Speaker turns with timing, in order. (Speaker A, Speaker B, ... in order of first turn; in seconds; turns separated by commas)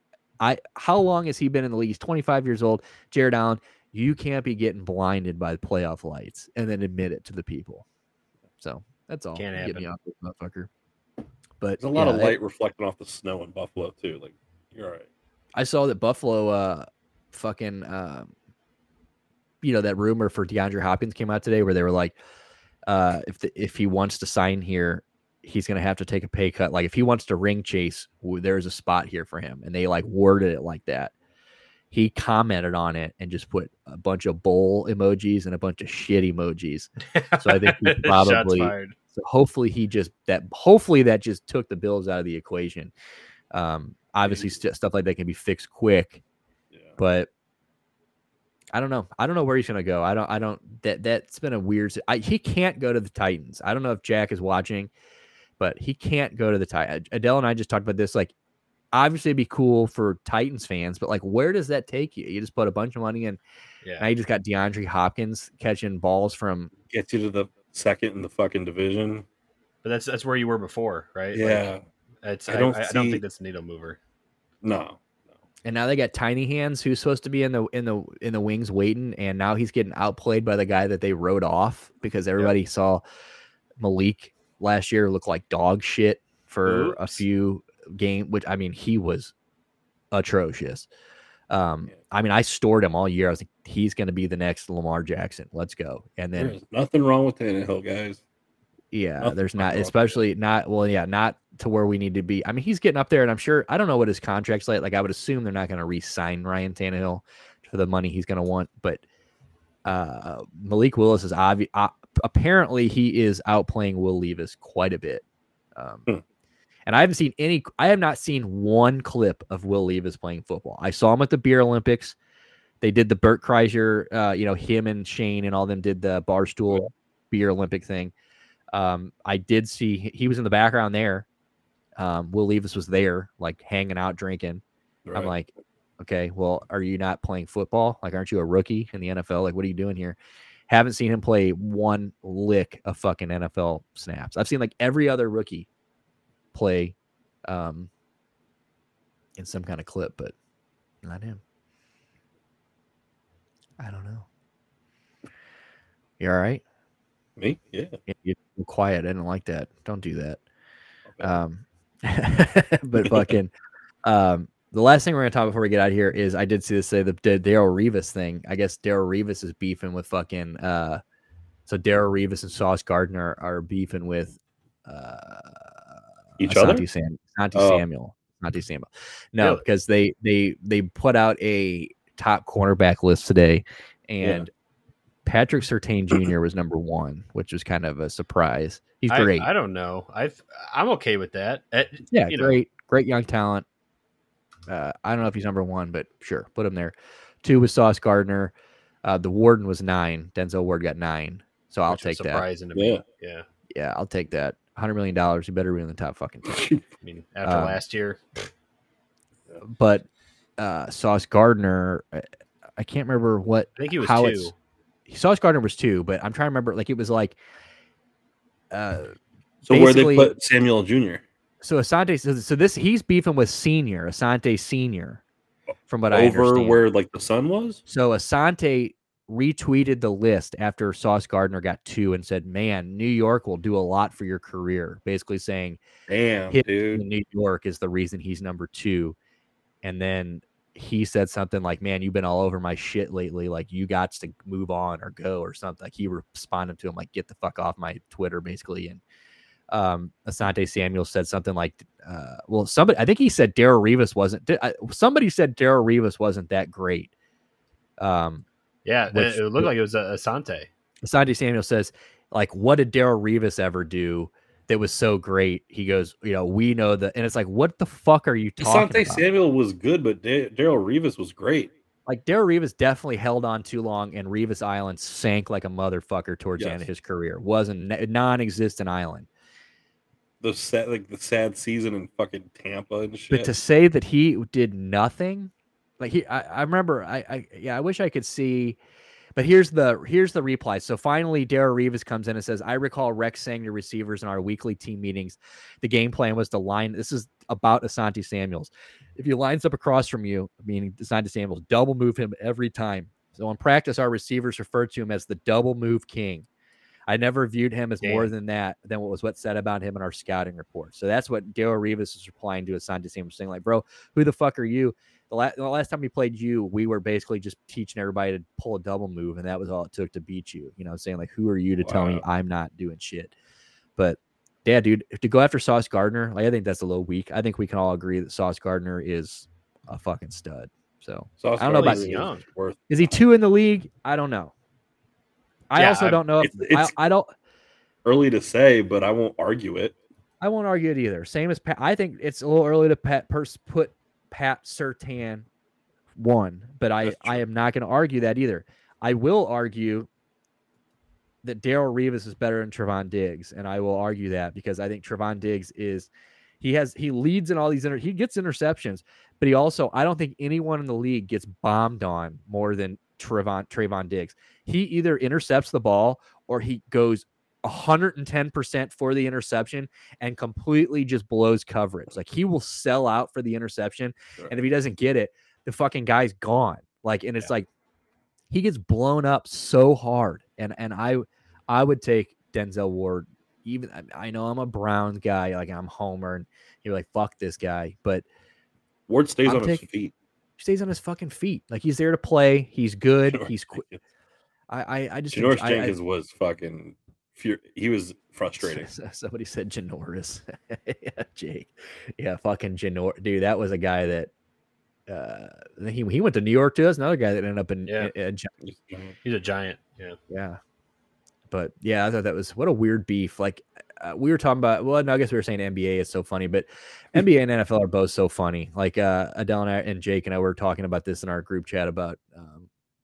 Speaker A: 0.4-7.8, Speaker A: 8.6-10.7, Speaker B: 9.3-9.9, Speaker A: 11.6-12.4, Speaker C: 11.8-15.1, Speaker A: 15.5-18.3, Speaker A: 19.6-22.1, Speaker A: 22.9-31.1, Speaker A: 31.9-36.9, Speaker B: 37.1-38.9, Speaker A: 37.4-42.9, Speaker A: 43.5-46.2, Speaker C: 44.2-44.5, Speaker C: 46.7-47.0, Speaker A: 47.0-47.3, Speaker A: 48.7-54.9, Speaker A: 55.6-58.3, Speaker A: 58.9-63.4, Speaker B: 63.8-64.1, Speaker A: 64.0-66.7, Speaker C: 66.9-69.2, Speaker B: 69.8-71.7, Speaker C: 71.3-71.8, Speaker B: 72.2-74.0, Speaker C: 72.5-73.2, Speaker C: 74.6-75.0, Speaker A: 75.6-83.0, Speaker A: 83.8-89.3, Speaker C: 86.6-87.2, Speaker A: 90.1-90.9, Speaker A: 91.5-96.5, Speaker C: 96.3-98.2, Speaker A: 98.9-109.0, Speaker C: 99.2-100.2, Speaker A: 109.8-116.1, Speaker A: 116.9-122.2, Speaker A: 122.8-128.1, Speaker A: 128.7-131.2, Speaker A: 132.0-134.6, Speaker C: 135.0-135.3, Speaker A: 135.1-140.2, Speaker A: 140.7-145.7, Speaker A: 146.5-146.9, Speaker A: 147.4-147.9, Speaker A: 149.4-150.3, Speaker A: 151.0-151.4, Speaker A: 153.8-154.2, Speaker A: 156.2-156.6, Speaker C: 157.4-158.0, Speaker A: 158.1-160.4, Speaker C: 161.1-161.4, Speaker A: 161.2-163.5, Speaker C: 163.0-163.3, Speaker A: 164.0-171.0, Speaker A: 171.7-175.8, Speaker C: 176.4-176.8, Speaker A: 176.4-184.5, Speaker C: 177.5-177.8, Speaker C: 184.2-184.5, Speaker A: 185.2-189.5, Speaker B: 189.1-192.6, Speaker A: 192.1-193.6, Speaker A: 194.7-198.5, Speaker A: 199.0-202.4, Speaker B: 201.9-203.4, Speaker C: 202.7-203.0, Speaker A: 203.7-206.6, Speaker C: 206.4-206.8, Speaker B: 207.0-208.2, Speaker A: 207.4-207.8, Speaker A: 209.6-210.1, Speaker A: 210.6-214.5, Speaker B: 213.8-214.5, Speaker A: 215.1-217.4, Speaker A: 218.7-219.1, Speaker C: 219.6-221.2, Speaker A: 219.7-220.3, Speaker A: 221.6-225.2, Speaker A: 225.9-226.8, Speaker C: 226.1-227.8, Speaker A: 227.9-235.8, Speaker C: 236.1-237.0, Speaker A: 236.5-239.2, Speaker A: 239.8-249.0, Speaker A: 249.7-257.1, Speaker A: 258.0-258.4, Speaker B: 258.8-260.7, Speaker A: 259.1-259.7, Speaker A: 261.0-269.2, Speaker C: 268.6-271.7, Speaker A: 272.1-279.3, Speaker C: 276.6-276.8, Speaker C: 280.4-283.5, Speaker A: 283.3-288.8, Speaker A: 289.3-306.5, Speaker A: 307.1-323.3, Speaker B: 308.0-308.3, Speaker C: 321.8-322.2, Speaker A: 324.0-332.3, Speaker C: 331.4-333.2, Speaker B: 331.6-332.4, Speaker A: 332.9-334.5, Speaker A: 335.7-337.3, Speaker B: 335.8-336.2, Speaker C: 336.4-336.9, Speaker C: 338.0-339.9, Speaker A: 340.4-345.4, Speaker A: 346.2-350.1, Speaker C: 347.0-347.4, Speaker A: 351.4-356.1, Speaker A: 356.6-377.7, Speaker A: 378.5-388.2, Speaker C: 389.1-390.1, Speaker A: 389.4-389.8, Speaker A: 390.6-393.8, Speaker C: 393.3-394.0, Speaker A: 394.7-396.0, Speaker C: 395.3-398.9, Speaker A: 398.6-404.3, Speaker A: 405.1-408.5, Speaker B: 407.9-408.1, Speaker C: 408.6-409.1, Speaker B: 409.2-410.2, Speaker A: 410.3-410.6, Speaker A: 411.5-422.7